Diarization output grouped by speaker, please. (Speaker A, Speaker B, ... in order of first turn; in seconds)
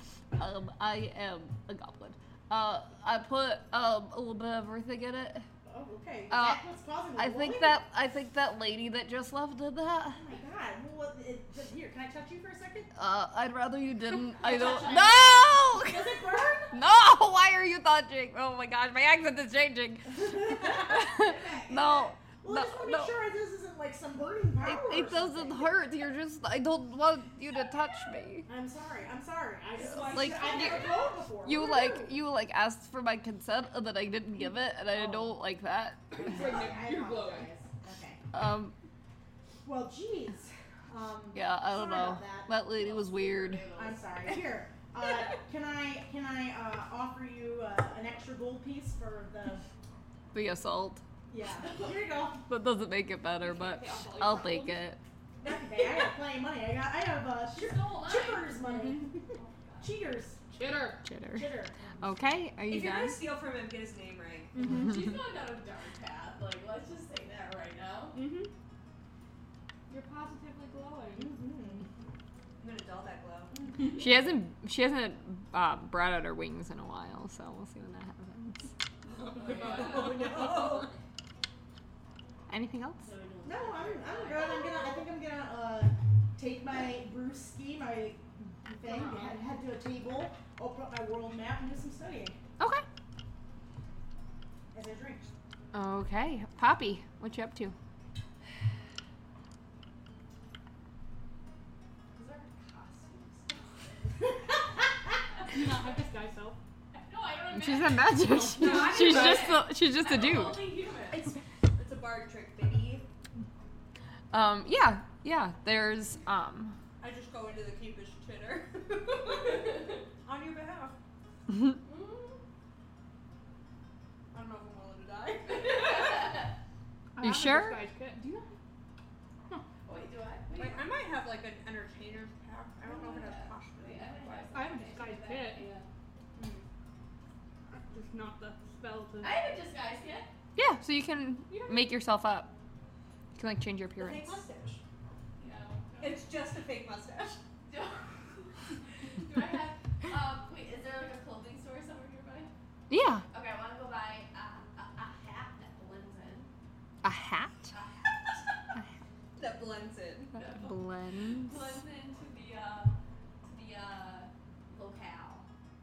Speaker A: 0.3-5.5, 6.3-10.2, 12.9-16.2, 16.7-23.2, 24.6-28.5, 30.1-36.3, 38.3-38.7, 41.3-43.7, 50.3-51.0, 52.5-55.0, 61.0-63.3, 74.0-78.7, 82.5-83.1, 92.6-92.8, 95.7-97.7, 107.5-110.7, 114.3-116.8, 121.5-121.8, 127.2-127.8, 140.5-142.5, 143.3-144.4, 152.9-153.2, 157.0-157.7, 160.4-161.8
Speaker B: 5.6-7.8, 10.1-12.9, 14.4-16.8, 20.1-25.8, 28.4-32.2, 34.9-35.3, 36.2-38.2, 39.6-42.5, 43.7-49.7, 51.3-52.5, 55.4-60.4, 61.3-62.4, 64.6-64.9, 71.1-71.9, 73.5-74.0, 79.6-80.8, 83.4-92.4, 94.7-95.3
Speaker C: 29.8-30.8, 55.4-56.1, 62.7-64.5, 72.6-73.6, 79.3-80.9, 108.6-109.4, 111.1-113.0, 117.0-121.0, 124.3-126.4, 130.5-134.5, 136.4-136.6, 144.0-144.8, 146.0-147.4, 159.3-160.4
Speaker D: 36.1-37.5, 53.5-54.8, 58.6-59.0, 60.5-61.0, 64.6-64.9, 68.1-68.5, 69.9-71.4, 79.5-80.0, 105.4-106.6, 108.2-109.6, 127.1-128.6, 134.5-135.7, 137.7-139.4, 141.5-141.9
Speaker E: 42.7-44.1, 51.6-52.1, 53.6-54.2, 57.5-58.6, 59.3-60.0, 64.6-68.2, 79.3-80.2, 83.0-84.9, 88.8-89.3, 102.1-104.5, 105.4-105.8, 106.9-111.3, 121.8-122.4, 125.5-126.5, 129.8-130.8, 132.8-135.9, 139.2-140.3, 145.4-146.4, 147.7-152.5, 153.3-156.5, 157.7-158.5, 160.3-160.8, 161.4-165.5